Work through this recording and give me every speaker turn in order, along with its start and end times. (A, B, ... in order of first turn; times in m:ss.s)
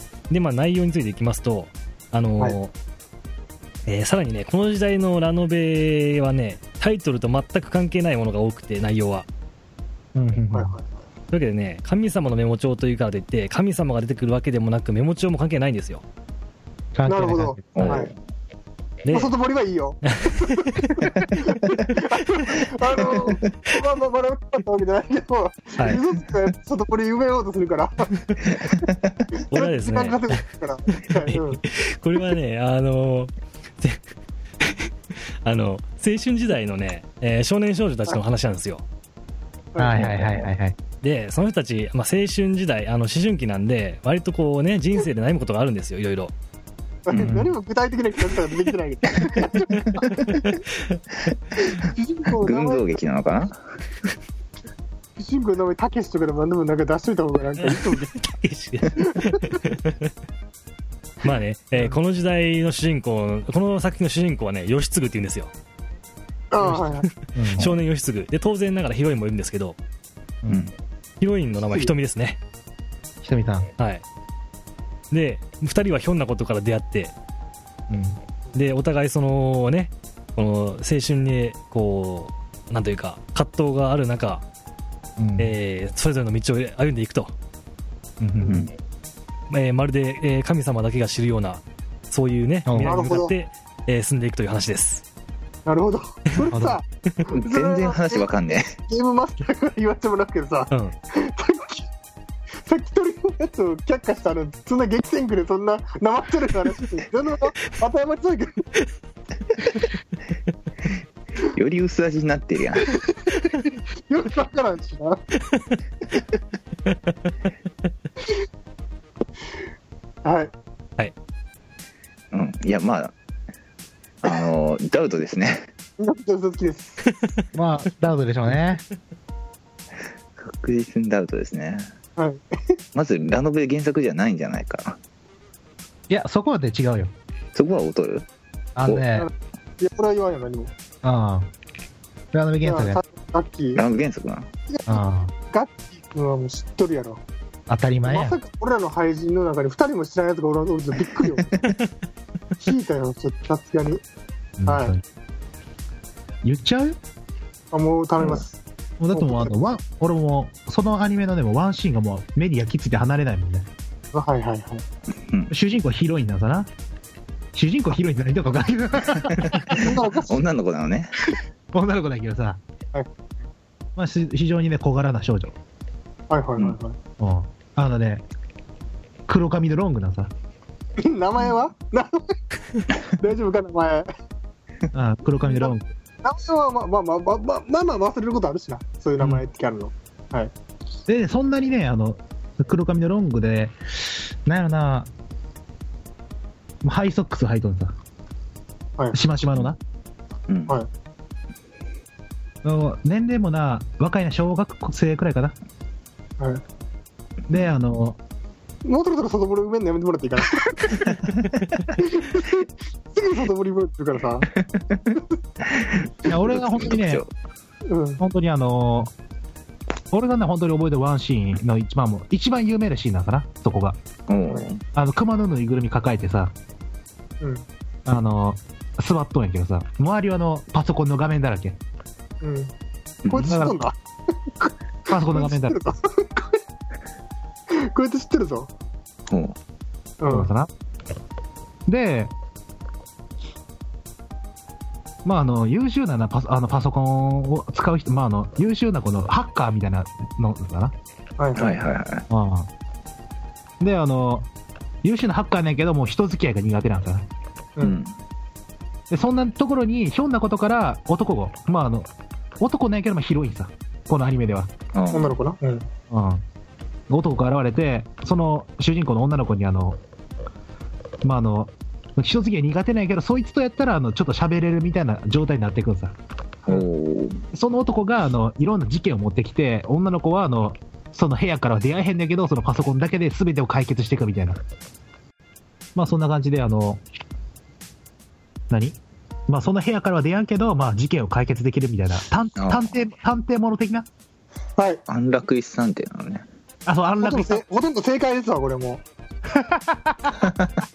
0:00.3-0:02.7 A
0:03.8-0:09.2 A
0:10.1-0:10.8 B
0:10.5-0:10.8 C
0:11.3-0:16.0 A
0:16.9-0:18.0 B
0:17.0-0:18.1 C
0:17.7-0:18.1 D
0:19.0-0:19.3 A
0:19.1-0:28.1 C
0:20.0-0:21.2 A
0:28.5-0:29.2 D
0:29.5-0:31.6 C
0:29.5-0:34.0 A
0:34.6-0:34.9 A
0:35.4-0:38.8 A
0:39.7-0:40.3 C
0:39.8-0:40.8 B
0:41.0-0:46.3 A
0:47.0-0:50.6 C
0:47.1-0:47.4 D
0:47.1-0:47.5 B
0:50.3-0:51.0 A
0:51.6-0:53.4 C
0:52.4-0:53.6 D
0:55.2-0:58.1 C
0:57.6-1:00.1 A
0:59.2-0:59.5 C
1:01.2-1:05.5 A
1:06.5-1:07.1 C
1:06.6-1:09.8 A
1:07.4-1:07.7 B
1:10.5-1:10.7 D
1:11.2-1:12.4 A
1:13.2-1:13.7 B
1:13.8-1:14.0 A
1:15.1-1:17.1 A
1:17.9-1:18.2 B
1:18.5-1:24.4 A
1:25.2-1:25.5 B
1:25.4-1:27.3 A
1:28.2-1:28.7 B
1:28.4-1:28.7 D
1:29.5-1:35.0 A
1:32.6-1:32.9 B
1:32.8-1:33.3 C
1:35.6-1:36.8 C
1:36.5-1:36.8 B
1:37.3-1:38.8 D
1:37.4-1:41.9 C
1:42.6-1:48.6 C
1:51.5-1:52.9 D
1:52.8-1:55.2 C
1:55.4-1:55.7 A
1:56.8-1:57.3 A
2:00.2-2:00.5 C
2:02.3-2:03.1 D
2:04.2-2:05.7 D
2:06.0-2:07.0 C
2:07.1-2:07.4 A
2:07.5-2:08.8 B
2:10.4-2:11.9 D
2:12.2-2:12.8 C
2:12.9-2:15.0 D
2:16.1-2:17.1 B
2:17.5-2:18.2 D
2:18.8-2:19.3 B
2:19.1-2:20.7 C
2:21.0-2:21.5 B
2:22.3-2:23.0 B
2:22.6-2:23.8 C
2:23.7-2:24.5 D
2:24.7-2:27.2 C
2:24.9-2:25.3 B
2:27.7-2:28.4 B
2:28.0-2:31.6 C
2:32.6-2:34.0 C
2:34.6-2:35.0 B
2:34.6-2:34.9 C
2:36.4-2:37.0 B
2:37.7-2:38.6 C
2:39.0-2:43.7 B
2:39.1-2:39.5 C
2:44.1-2:44.8 C
2:45.2-2:45.5 D
2:45.5-2:46.7 B
2:47.5-2:49.9 B
2:49.4-2:51.1 D
2:49.7-2:50.4 C
2:51.7-2:52.6 B
2:54.0-2:55.6 B
2:56.3-2:57.0 C
2:57.2-2:58.2 B
2:59.3-3:00.3 B
3:01.0-3:02.3 C
3:03.2-3:04.1 C
3:04.9-3:05.9 B
3:05.4-3:10.5 C
3:11.1-3:15.1 B
3:16.8-3:17.9 B
3:19.1-3:19.8 B
3:20.5-3:20.8 D
3:22.6-3:25.5 B
3:26.4-3:26.6 C
3:27.5-3:28.2 B
3:28.8-3:31.2 C
3:32.0-3:34.5 C
3:34.5-3:37.3 D
3:36.2-3:37.2 B
3:37.8-3:38.2 C
3:38.2-3:39.1 B
3:40.1-3:44.0 B
3:44.3-3:44.8 D
3:44.9-3:46.5 B
3:47.4-3:47.6 C
3:48.0-3:51.8 B
3:52.4-3:52.7 C
3:53.2-3:53.6 D
3:53.3-3:54.0 C
3:53.4-3:53.7 B
3:54.6-3:56.6 C
3:55.1-3:55.8 B
3:57.7-3:58.7 C
3:59.3-3:59.6 D
4:00.2-4:00.5 C
4:00.3-4:00.7 B
4:01.8-4:02.3 B
4:05.2-4:10.9 B
4:11.4-4:11.8 C
4:11.6-4:12.2 D
4:12.3-4:12.7 B
4:13.8-4:14.5 B
4:15.0-4:17.2 B
4:17.8-4:18.1 D
4:19.1-4:24.7 B
4:24.9-4:25.3 D
4:25.1-4:25.9 C
4:26.1-4:26.4 B
4:27.1-4:30.0 B
4:31.2-4:36.2 B
4:36.7-4:37.4 D
4:37.5-4:44.6 B
4:45.9-4:47.0 B
4:48.7-4:54.1 B
4:52.6-4:53.0 D
4:54.8-4:55.0 C
4:55.1-4:56.5 D
4:56.8-4:57.6 B
4:57.2-4:59.0 C
4:59.5-5:00.5 B
5:00.4-5:00.7 D